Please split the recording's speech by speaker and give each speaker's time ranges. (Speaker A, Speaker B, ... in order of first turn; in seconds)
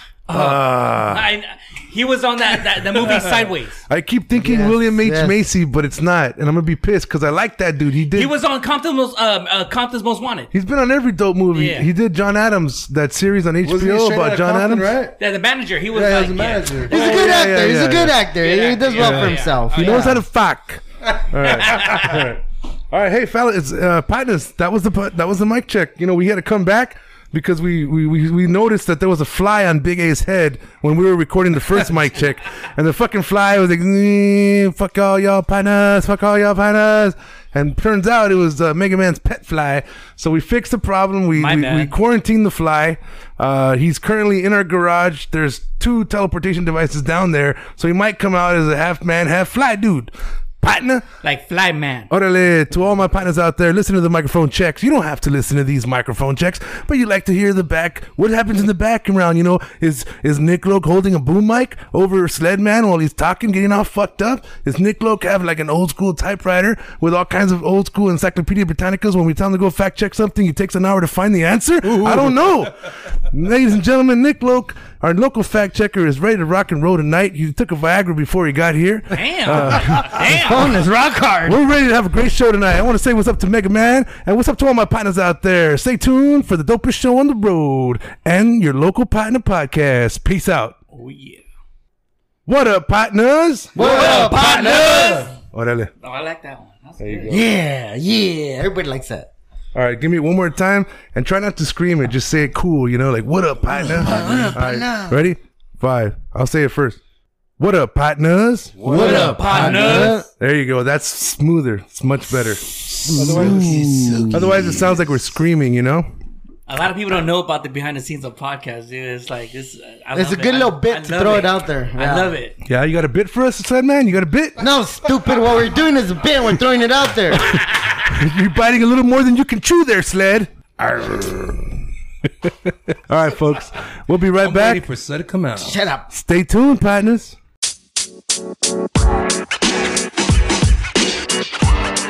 Speaker A: 0.3-3.9, 8.1-10.5, 11.5-11.9, 15.2-17.0, 18.4-20.1, 21.4-22.2, 41.4-41.9, 51.2-52.1, 79.1-80.8, 90.9-91.4, 93.8-95.3, 96.0-97.4, 104.1-104.5, 108.9-110.2, 116.7-122.6, 127.5-128.0
Speaker B: 0.3-1.3, 2.9-8.3, 10.5-14.9, 16.9-18.2, 18.9-51.1, 52.1-80.5, 81.5-90.8, 92.5-95.9, 97.0-97.4, 99.7-107.0, 107.6-109.8, 110.4-116.1, 122.6-124.7, 127.6-131.6, 132.2-134.8, 136.1-137.4
Speaker C: 4.3-5.4, 16.9-20.2, 79.9-81.6, 93.7-95.3, 97.3-99.3, 103.6-105.2, 108.8-110.3, 112.9-114.9, 120.1-122.4, 124.6-127.6, 135.6-136.1
Speaker D: 13.6-15.2, 15.9-17.0, 71.8-72.4, 108.9-110.2, 113.0-114.5, 134.4-135.8